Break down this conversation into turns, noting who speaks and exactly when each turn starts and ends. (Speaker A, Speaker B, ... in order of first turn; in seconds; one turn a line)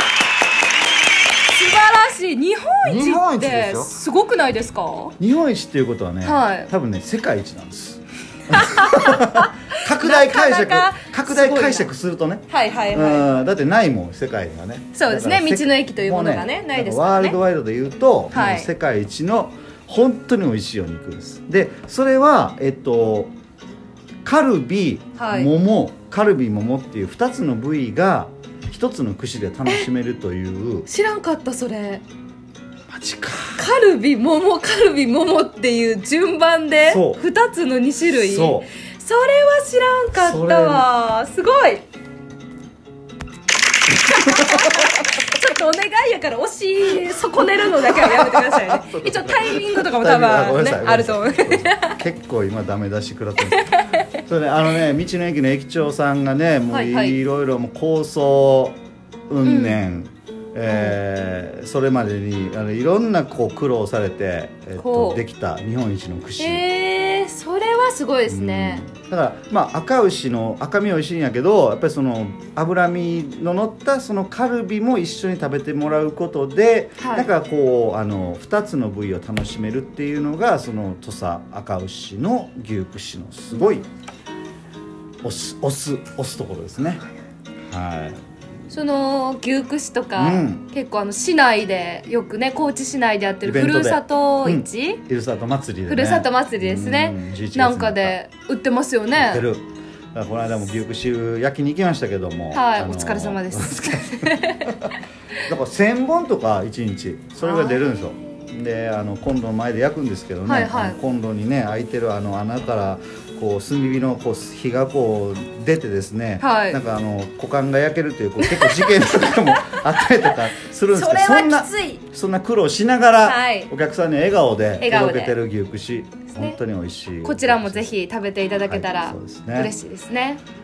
Speaker A: 1.5-5.2
Speaker B: 2.9-3.9
Speaker B: 5.2-23.3
Speaker A: 6.2-6.7
Speaker A: 8.5-11.9
Speaker A: 12.5-13.3
Speaker A: 14.9-17.4
Speaker A: 18.3-18.7
Speaker B: 24.2-30.9
Speaker A: 25.2-25.5
Speaker A: 30.9-32.0
Speaker B: 32.9-33.6
Speaker A: 33.6-41.8
Speaker B: 36.8-37.2
Speaker B: 38.1-38.6
Speaker B: 40.1-40.9
Speaker A: 43.9-52.0
Speaker B: 44.3-44.8
Speaker B: 47.9-66.6
Speaker A: 53.4-54.0
Speaker A: 56.7-57.2
Speaker A: 59.4-59.8
Speaker A: 60.7-61.0
Speaker A: 64.8-65.2
Speaker A: 66.4-68.8
Speaker B: 68.3-83.8
Speaker A: 77.0-77.3
Speaker B: 85.2-87.0
Speaker B: 87.7-88.2
Speaker A: 88.7-95.0
Speaker B: 90.2-90.6
Speaker B: 93.4-98.2
Speaker A: 95.9-99.4
Speaker B: 99.2-104.9
Speaker A: 102.5-104.8
Speaker B: 105.4-127.9
Speaker A: 107.4-107.9
Speaker A: 110.5-111.0
Speaker A: 116.4-116.8
Speaker A: 118.4-120.3
Speaker A: 120.9-122.0
Speaker A: 123.2-123.7
Speaker A: 124.8-125.4
Speaker A: 127.2-130.4
Speaker B: 128.7-129.7